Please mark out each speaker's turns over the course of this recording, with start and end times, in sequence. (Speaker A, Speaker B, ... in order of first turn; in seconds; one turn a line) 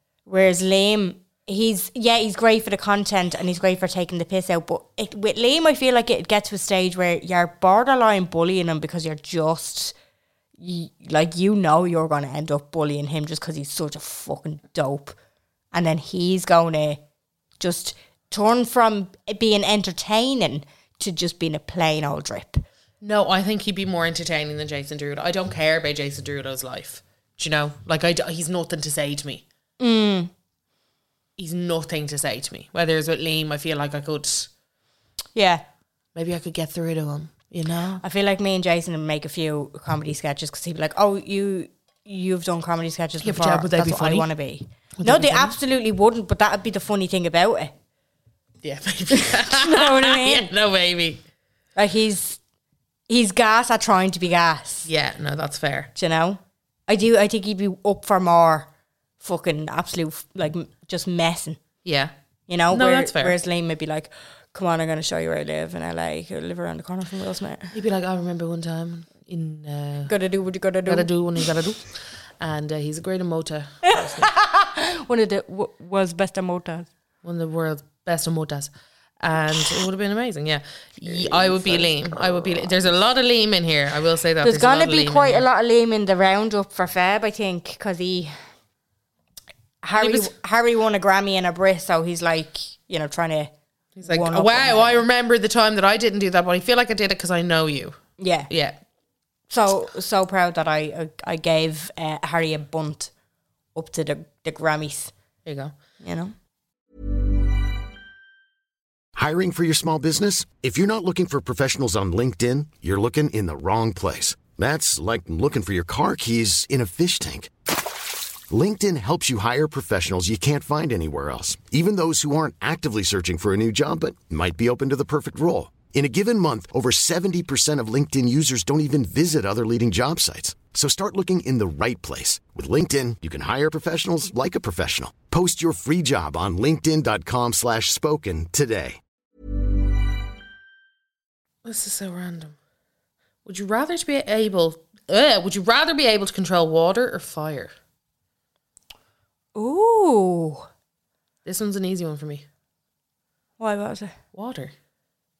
Speaker A: 0.3-9.9
Speaker A: 10.6-15.2
Speaker A: 15.7-17.0
Speaker A: 17.6-22.6
Speaker B: 23.0-29.4
Speaker A: 29.8-30.3
Speaker B: 31.4-34.5
Speaker A: 35.4-35.6
Speaker B: 36.1-38.0
Speaker A: 38.0-47.7
Speaker B: 43.2-44.3
Speaker B: 45.0-45.5
Speaker B: 48.6-51.2
Speaker A: 49.1-50.5
Speaker A: 51.8-52.4
Speaker A: 53.1-54.9
Speaker B: 54.9-55.9
Speaker A: 56.0-58.7
Speaker A: 59.2-61.6
Speaker B: 61.9-62.1
Speaker A: 62.5-67.7
Speaker B: 62.7-63.4
Speaker B: 67.7-70.1
Speaker A: 70.1-71.1
Speaker B: 70.9-74.3
Speaker A: 73.9-76.9
Speaker B: 77.2-85.4
Speaker A: 84.4-88.4
Speaker A: 89.8-93.5
Speaker B: 90.0-90.3
Speaker B: 94.0-98.8
Speaker A: 94.0-95.0
Speaker A: 98.2-98.5
Speaker A: 99.5-103.1
Speaker A: 103.8-105.1
Speaker B: 105.5-105.7
Speaker A: 106.0-106.3
Speaker C: 109.2-117.5
Speaker C: 118.5-139.0
Speaker B: 141.6-142.6
Speaker B: 143.4-147.7
Speaker A: 149.6-150.7
Speaker B: 151.4-152.4
Speaker A: 153.6-154.2
Speaker B: 154.3-154.7